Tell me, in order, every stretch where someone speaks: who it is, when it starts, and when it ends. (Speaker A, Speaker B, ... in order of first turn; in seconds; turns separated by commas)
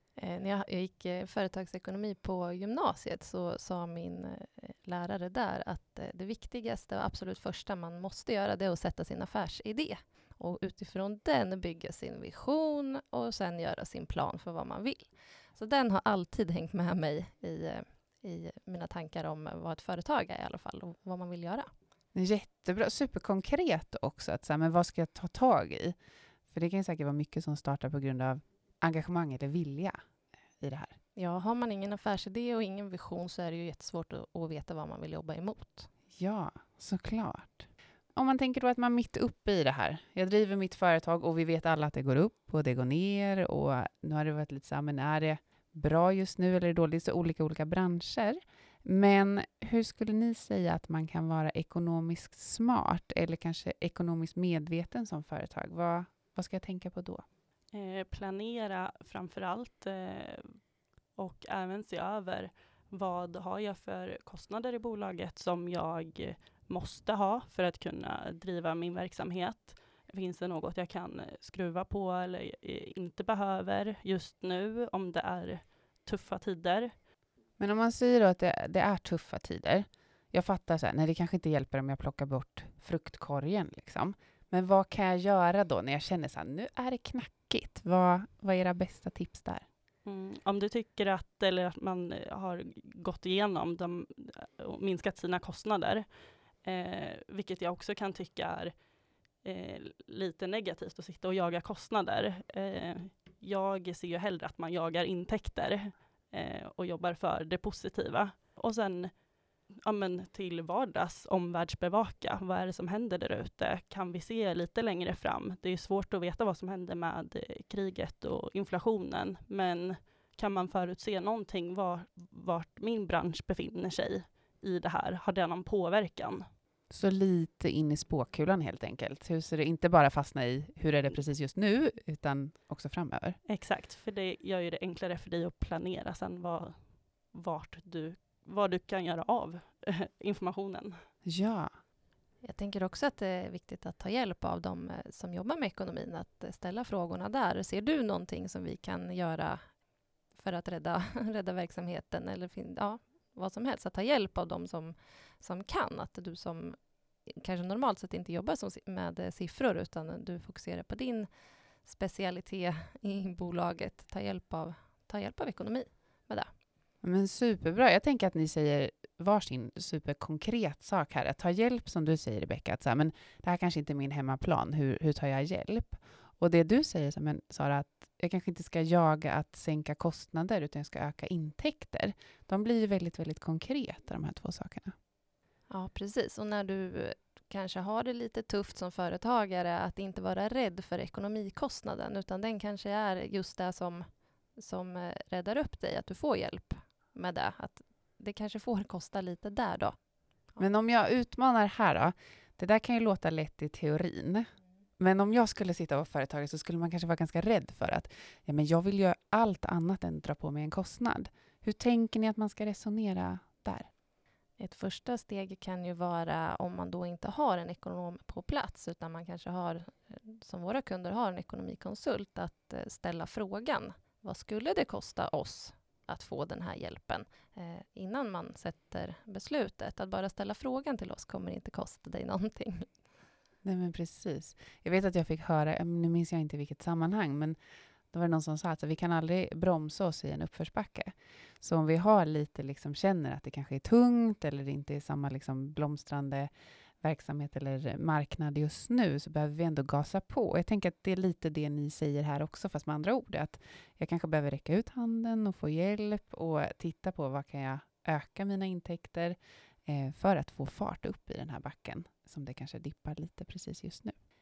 Speaker A: 0.2-21.7, Speaker B: 22.1-25.9, Speaker B: 26.5-29.9, Speaker B: 30.6-30.9, Speaker A: 31.1-35.9, Speaker B: 36.1-57.2, Speaker C: 57.7-60.6, Speaker C: 61.1-76.9, Speaker B: 77.6-89.7, Speaker C: 90.0-98.8, Speaker C: 99.4-109.2, Speaker C: 109.8-126.5, Speaker B: 126.9-133.4, Speaker C: 133.5-141.0, Speaker B: 141.2-141.7, Speaker A: 142.4-149.8, Speaker A: 150.3-161.3, Speaker A: 161.8-166.5, Speaker B: 167.0-184.9, Speaker A: 185.7-199.9, Speaker B: 200.6-213.9, Speaker A: 214.6-232.9, Speaker B: 233.6-237.6, Speaker B: 238.1-246.5, Speaker B: 247.0-264.1